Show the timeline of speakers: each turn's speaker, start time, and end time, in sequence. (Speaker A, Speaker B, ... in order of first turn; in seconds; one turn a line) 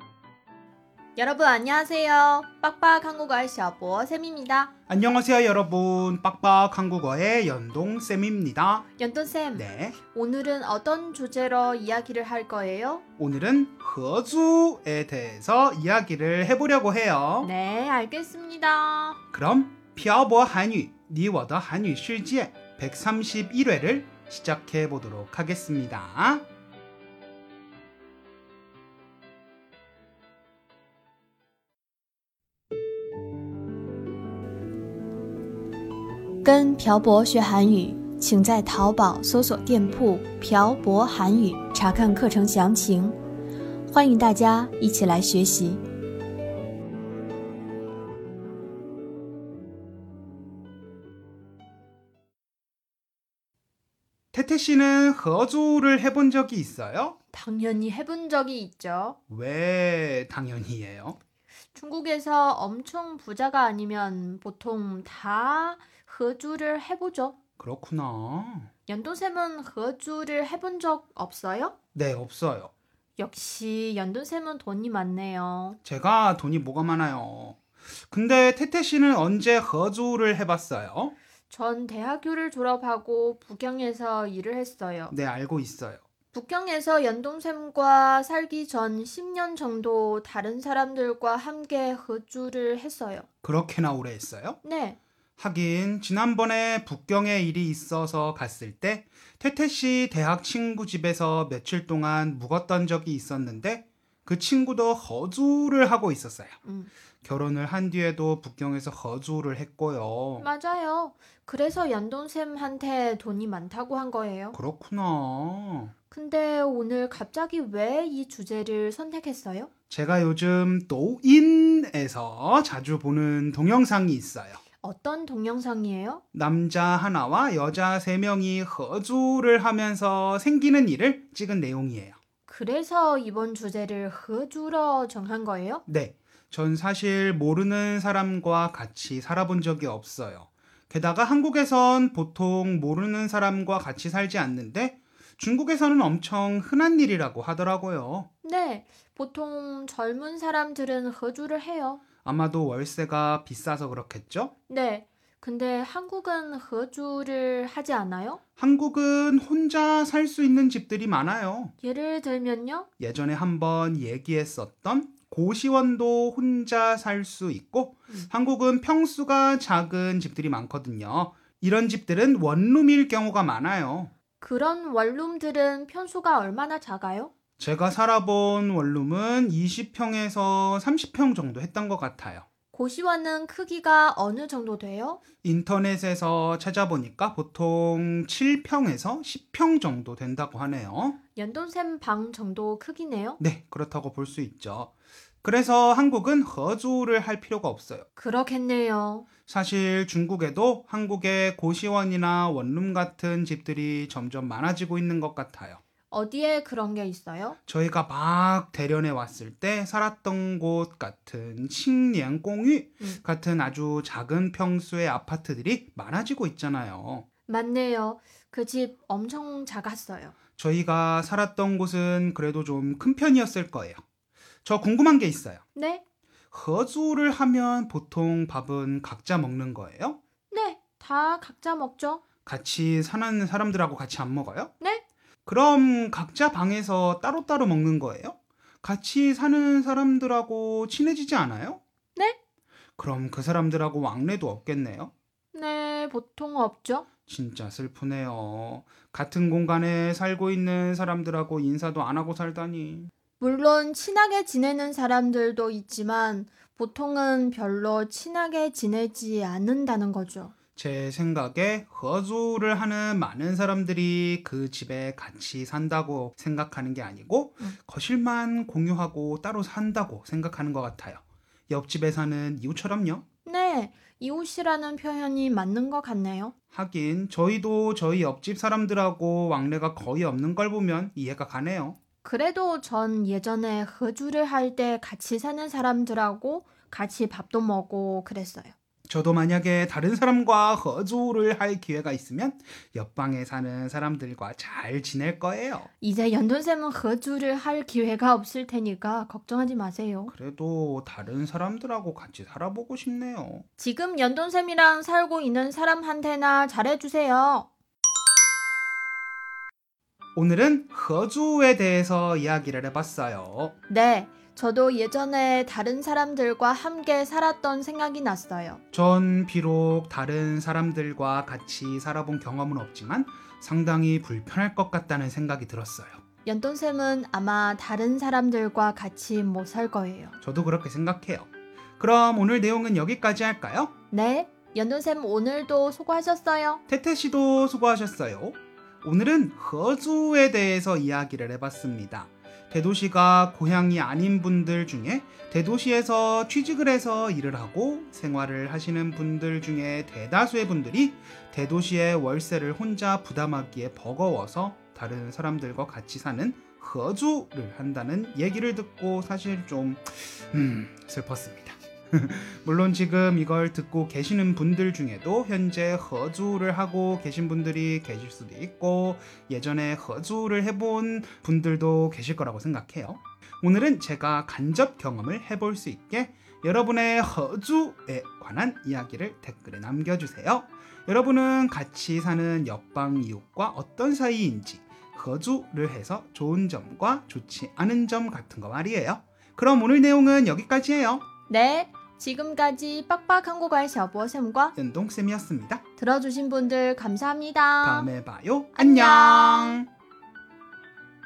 Speaker A: 1.2-4.7
Speaker B: 4.9-8.8
Speaker A: 9.0-13.0
Speaker B: 9.6-10.0
Speaker B: 13.2-17.5
Speaker A: 17.4-19.2
Speaker B: 19.3-26.4
Speaker A: 36.4-43.2
Speaker A: 43.9-45.8
Speaker B: 54.3-57.2
Speaker A: 57.3-59.2
Speaker B: 59.3-61.2
Speaker A: 61.7-67.3
Speaker B: 67.6-68.7
Speaker A: 68.9-71.8
Speaker B: 72.0-72.7
Speaker A: 73.2-75.8
Speaker B: 75.8-81.2
Speaker A: 81.5-85.1
Speaker B: 85.1-86.0
Speaker A: 86.3-93.3
Speaker B: 93.4-94.6
Speaker A: 94.6-95.0
Speaker B: 95.4-106.6
Speaker A: 106.7-106.9
Speaker B: 107.2-110.5
Speaker A: 110.4-114.6
Speaker B: 114.5-115.9
Speaker A: 116.1-119.7
Speaker B: 119.9-124.6
Speaker A: 124.8-126.2
Speaker B: 126.3-132.2
Speaker A: 132.5-135.8
Speaker B: 135.9-148.3
Speaker A: 148.4-152.0
Speaker B: 152.2-154.5
Speaker A: 154.7-158.4
Speaker B: 158.6-161.7
Speaker A: 161.8-162.9
Speaker B: 163.0-174.1
Speaker A: 174.4-177.3
Speaker B: 177.6-182.5
Speaker A: 182.7-185.2
Speaker B: 185.4-191.2
Speaker A: 191.3-193.4
Speaker B: 193.4-194.9
Speaker B: 195.4-198.1
Speaker A: 198.2-199.3
Speaker B: 199.5-205.8
Speaker A: 206.1-207.6
Speaker B: 207.7-217.3
Speaker A: 217.5-220.3
Speaker B: 220.6-224.0
Speaker B: 224.6-225.6
Speaker A: 225.8-226.0
Speaker B: 226.5-230.2
Speaker A: 230.5-232.2
Speaker B: 232.5-234.7
Speaker B: 235.5-241.8
Speaker B: 243.0-245.1
Speaker A: 245.5-247.1
Speaker B: 247.3-253.1
Speaker A: 253.4-260.5
Speaker B: 260.8-273.2
Speaker A: 273.5-276.5
Speaker B: 276.7-282.0
Speaker A: 282.2-288.7
Speaker B: 289.1-295.9
Speaker A: 296.0-300.3
Speaker B: 300.3-303.6
Speaker A: 303.8-307.7
Speaker B: 310.4-313.7
Speaker A: 313.9-318.8
Speaker B: 318.9-326.2
Speaker A: 326.4-330.4
Speaker B: 330.4-333.9
Speaker A: 334.1-336.8
Speaker B: 336.9-391.2
Speaker A: 391.5-394.8
Speaker B: 394.8-395.8
Speaker A: 396.0-398.1
Speaker B: 397.8-399.9
Speaker A: 398.8-399.8